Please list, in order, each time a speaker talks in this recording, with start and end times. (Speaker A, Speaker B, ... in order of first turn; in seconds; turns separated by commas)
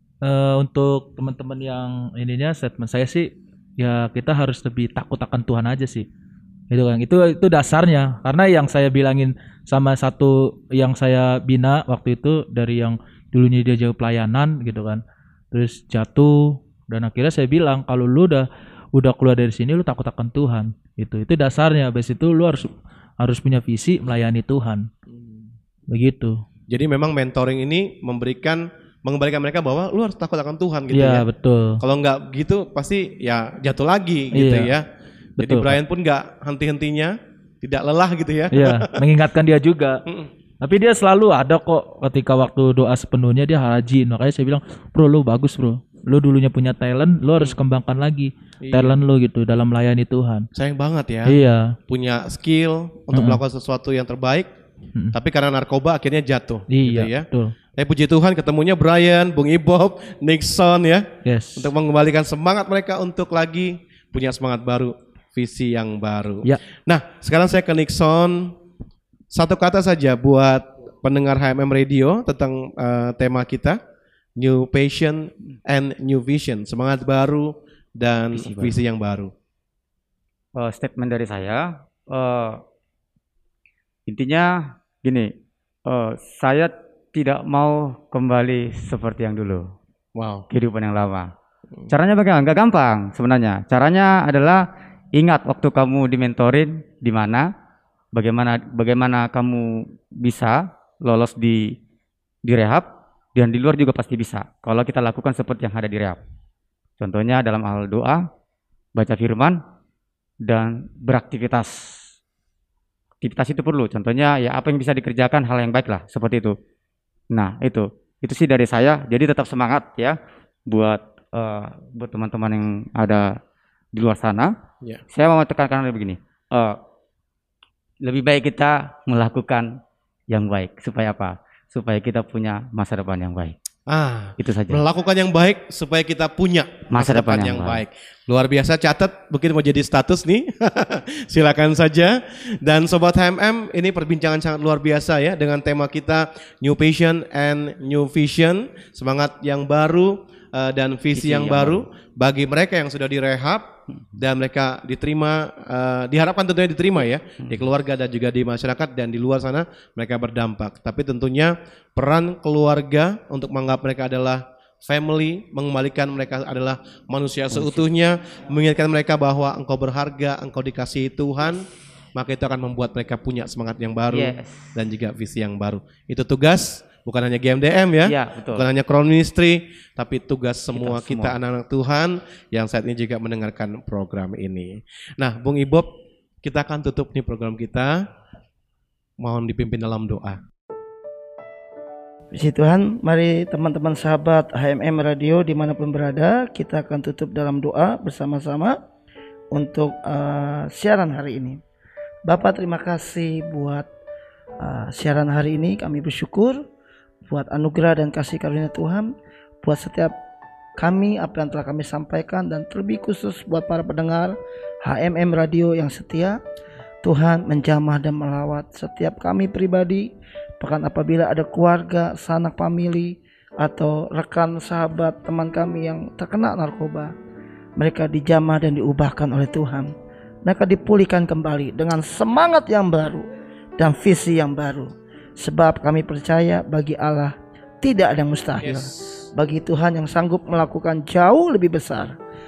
Speaker A: 0.2-6.1, Speaker A: 6.7-15.0, Speaker A: 15.5-24.9, Speaker B: 25.1-25.5, Speaker A: 25.9-26.4, Speaker B: 26.7-31.2, Speaker A: 30.9-31.8, Speaker B: 31.8-34.8, Speaker A: 34.3-34.7, Speaker A: 35.4-35.8, Speaker B: 35.4-39.0, Speaker A: 38.5-40.0, Speaker A: 40.6-50.5, Speaker B: 48.6-49.0, Speaker B: 50.5-51.4, Speaker A: 51.3-51.7, Speaker B: 51.9-54.5, Speaker A: 53.1-53.4, Speaker B: 55.1-61.0, Speaker A: 56.7-57.5, Speaker A: 61.2-61.7, Speaker B: 61.6-68.5, Speaker B: 69.3-73.8, Speaker B: 74.4-79.3, Speaker C: 78.3-78.8, Speaker C: 80.5-82.6, Speaker C: 84.1-85.3, Speaker C: 85.8-89.6, Speaker B: 90.2-90.4, Speaker C: 90.5-91.3, Speaker C: 91.9-94.6, Speaker C: 95.1-97.5, Speaker C: 98.1-101.7, Speaker C: 102.5-106.2, Speaker C: 107.0-108.2, Speaker C: 109.0-109.6, Speaker C: 110.5-111.7, Speaker C: 113.2-116.5, Speaker C: 117.3-120.2, Speaker C: 120.7-123.3, Speaker C: 123.9-124.5, Speaker C: 125.1-126.8, Speaker C: 128.0-129.7, Speaker C: 130.3-133.5, Speaker B: 133.9-171.6, Speaker C: 134.4-134.8, Speaker C: 136.9-137.8, Speaker C: 151.1-151.8, Speaker C: 167.5-167.8, Speaker B: 172.2-185.9, Speaker C: 174.1-174.7, Speaker C: 178.0-178.6, Speaker C: 180.7-181.3, Speaker B: 186.4-188.0, Speaker B: 189.2-190.4, Speaker D: 192.3-198.8, Speaker D: 199.5-201.6, Speaker D: 202.2-203.9, Speaker D: 204.6-206.6, Speaker D: 207.3-209.1, Speaker D: 209.6-210.1, Speaker D: 210.8-216.4, Speaker D: 217.0-227.1, Speaker D: 227.8-229.9, Speaker D: 230.4-242.1, Speaker B: 238.6-239.3